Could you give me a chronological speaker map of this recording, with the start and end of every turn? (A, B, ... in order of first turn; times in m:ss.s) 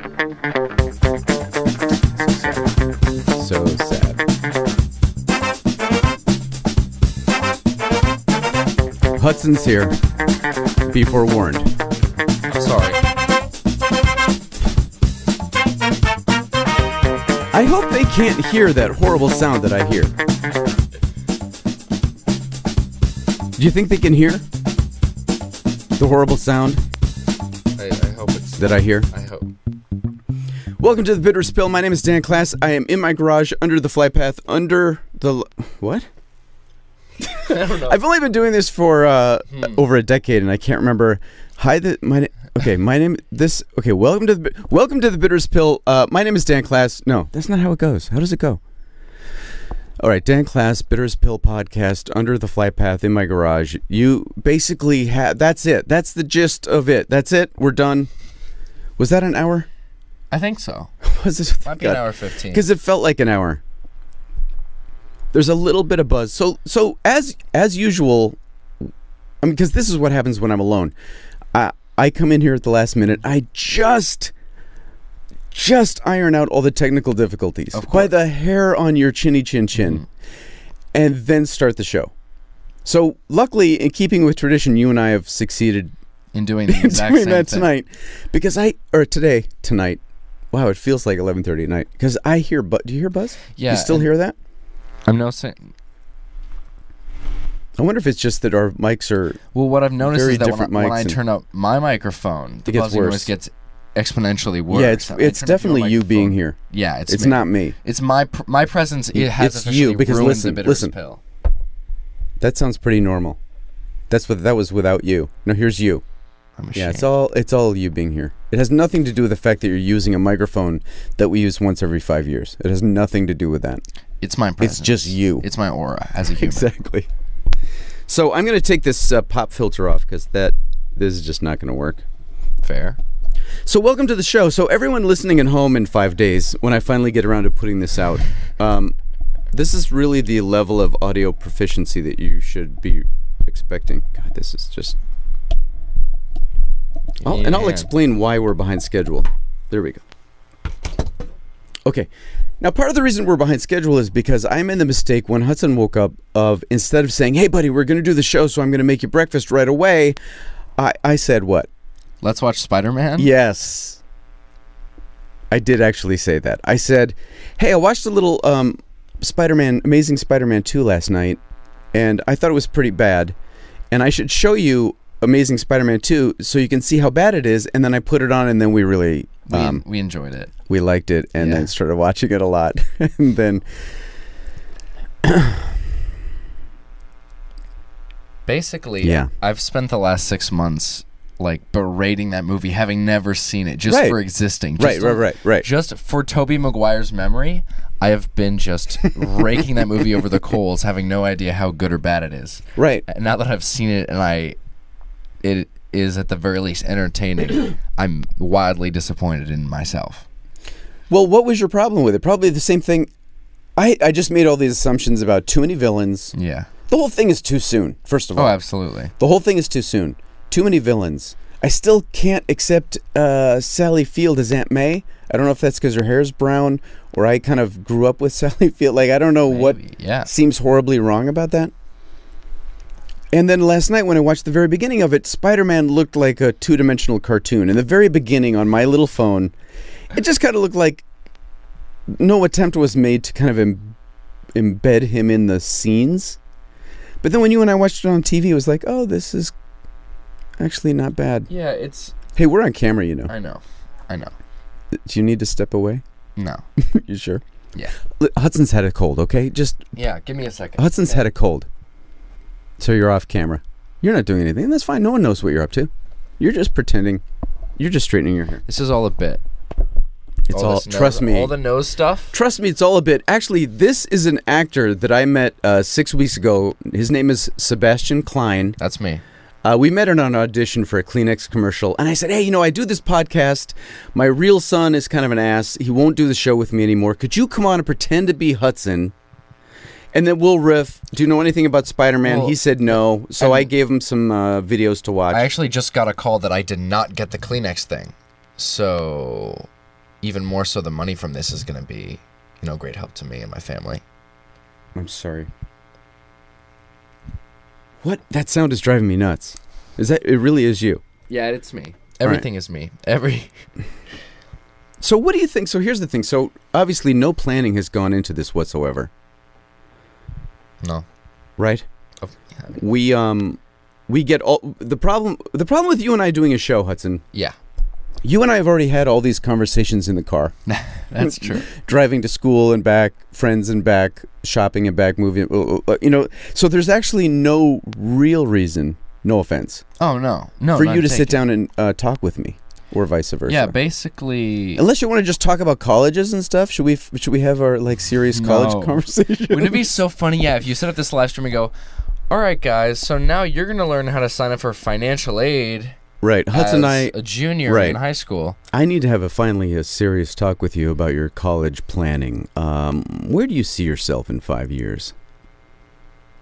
0:02.2-0:02.7 A
0:03.3-0:04.2 A
0:09.2-0:10.0 A
0:10.9-0:11.7 A
0:12.5-0:13.0 B
0:17.5-0:20.1 A
0:23.6-0:24.4 A
0:26.0-0:26.8 A
0:27.8-0:29.5 B
0:28.6-0:29.1 A
0:30.8-0:36.1 A
0:37.2-0:48.6 A
0:37.3-0:38.0 B
0:50.0-0:58.1 A
0:59.0-0:59.7 A
1:00.3-1:00.9 B
1:01.0-1:03.6 A
1:01.6-1:02.6 B
1:05.3-1:08.4 A
1:09.4-1:10.9 A
1:11.5-1:14.3 A
1:15.5-1:20.0 A
1:17.7-1:18.1 B
1:19.8-1:20.0 B
1:20.9-1:22.1 A
1:22.8-1:25.9 A
1:26.3-1:27.6 B
1:26.7-1:30.0 A
1:30.5-1:34.4 A
1:33.6-1:34.1 B
1:35.1-1:35.7 B
1:37.8-1:39.4 A
1:39.5-1:51.2 B
1:40.0-1:41.2 A
1:42.7-1:43.3 A
1:44.7-1:47.8 A
1:49.1-1:50.9 A
1:52.4-1:53.4 A
1:54.1-1:56.0 A
1:56.6-1:57.1 B
1:56.8-2:03.8 A
2:04.2-2:06.7 B
2:04.6-2:05.5 A
2:06.2-2:07.1 A
2:08.1-2:12.0 A
2:12.6-2:13.0 B
2:13.6-2:18.9 A
2:19.5-2:25.0 A
2:27.2-2:27.9 B
2:27.2-2:30.0 A
2:32.6-2:40.2 A
2:40.8-2:41.7 A
2:42.2-2:43.3 B
2:43.2-2:44.0 A
2:45.5-2:51.4 A
2:51.9-2:53.3 A
2:53.9-2:59.8 A
2:59.5-3:00.5 B
3:00.7-3:03.6 A
3:01.4-3:01.7 B
3:05.2-3:05.8 A
3:08.5-3:24.6 B
3:09.0-3:09.3 A
3:13.9-3:14.2 A
3:14.8-3:15.7 A
3:22.8-3:23.0 A
3:25.4-3:30.3 B
3:31.1-3:33.1 A
3:33.8-3:36.3 A
3:36.3-3:36.7 B
3:36.9-3:38.6 A
3:38.4-3:39.1 B
3:39.2-3:51.7 A
3:49.5-3:50.3 B
3:53.3-3:59.5 A
4:00.1-4:01.0 A
4:02.1-4:04.0 A
4:04.6-4:06.4 A
4:07.2-4:09.5 A
4:10.6-4:11.5 A
4:11.5-4:12.2 B
4:12.4-4:13.3 A
4:13.3-4:14.3 B
4:14.9-4:16.0 A
4:16.4-4:16.6 B
4:16.8-4:17.4 A
4:18.1-4:19.8 A
4:20.0-4:21.2 B
4:20.8-4:21.7 A
4:22.8-4:27.2 A
4:27.8-4:28.6 A
4:28.7-4:29.4 B
4:30.5-4:31.6 A
4:30.5-4:32.4 B
4:32.3-4:38.8 A
4:38.8-4:39.2 B
4:39.6-4:49.1 A
4:50.1-4:55.5 A
4:52.2-4:53.7 B
4:55.3-4:59.7 B
5:00.2-5:04.0 B
5:05.0-5:05.5 A
5:08.0-5:11.0 A
5:11.3-5:13.5 B
5:15.0-5:19.1 A
5:21.6-5:21.8 A
5:22.2-5:22.8 B
5:22.8-5:27.2 A
5:28.2-5:30.5 A
5:30.7-5:31.7 B
5:31.2-5:39.8 A
5:40.0-5:41.4 B
5:40.7-5:43.7 A
5:43.5-5:44.8 B
5:44.8-5:50.0 A
5:48.3-5:51.7 B
5:52.3-5:56.0 B
5:56.2-5:58.0 A
5:56.5-5:58.6 B
5:58.7-6:05.1 A